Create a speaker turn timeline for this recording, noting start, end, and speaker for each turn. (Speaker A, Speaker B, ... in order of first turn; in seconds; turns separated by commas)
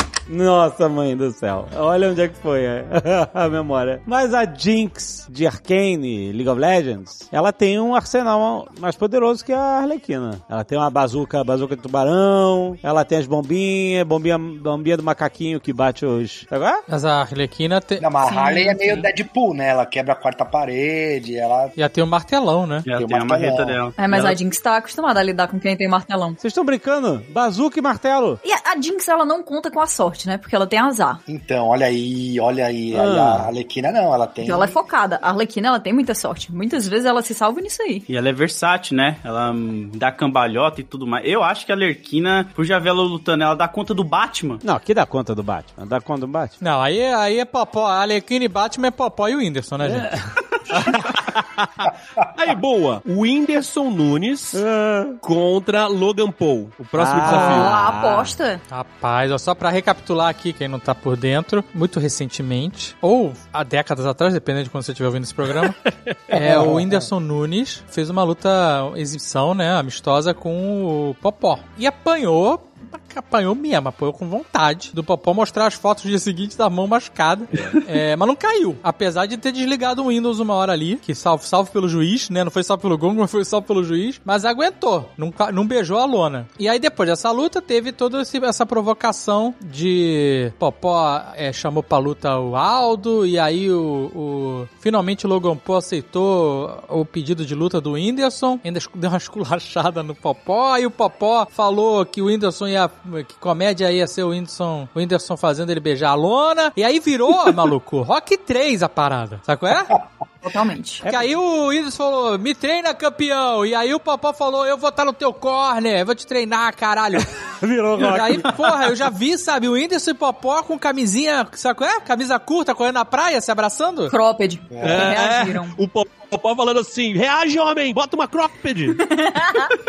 Speaker A: 0.3-16.8, Speaker B: 16.9-18.1, Speaker C: 18.0-21.8, Speaker D: 18.2-19.1, Speaker B: 21.8-22.9, Speaker E: 22.9-24.3, Speaker C: 23.0-23.8, Speaker D: 24.0-26.4, Speaker A: 26.4-28.4, Speaker D: 28.4-31.2, Speaker C: 31.3-34.8, Speaker A: 32.9-33.5, Speaker D: 34.4-38.0, Speaker E: 38.1-44.6, Speaker A: 44.6-46.6, Speaker B: 46.6-50.1, Speaker A: 49.9-50.2, Speaker F: 50.7-54.6, Speaker A: 54.5-55.2, Speaker F: 55.2-57.8, Speaker A: 57.0-58.3, Speaker D: 57.2-58.6, Speaker B: 57.3-57.7, Speaker B: 58.7-65.8, Speaker B: 66.3-110.0, Speaker C: 66.3-67.1, Speaker D: 110.4-111.0, Speaker B: 111.0-117.3, Speaker A: 117.6-118.9, Speaker B: 118.0-124.2, Speaker D: 124.1-125.8, Speaker C: 124.7-125.2, Speaker F: 124.8-129.0, Speaker D: 129.0-129.7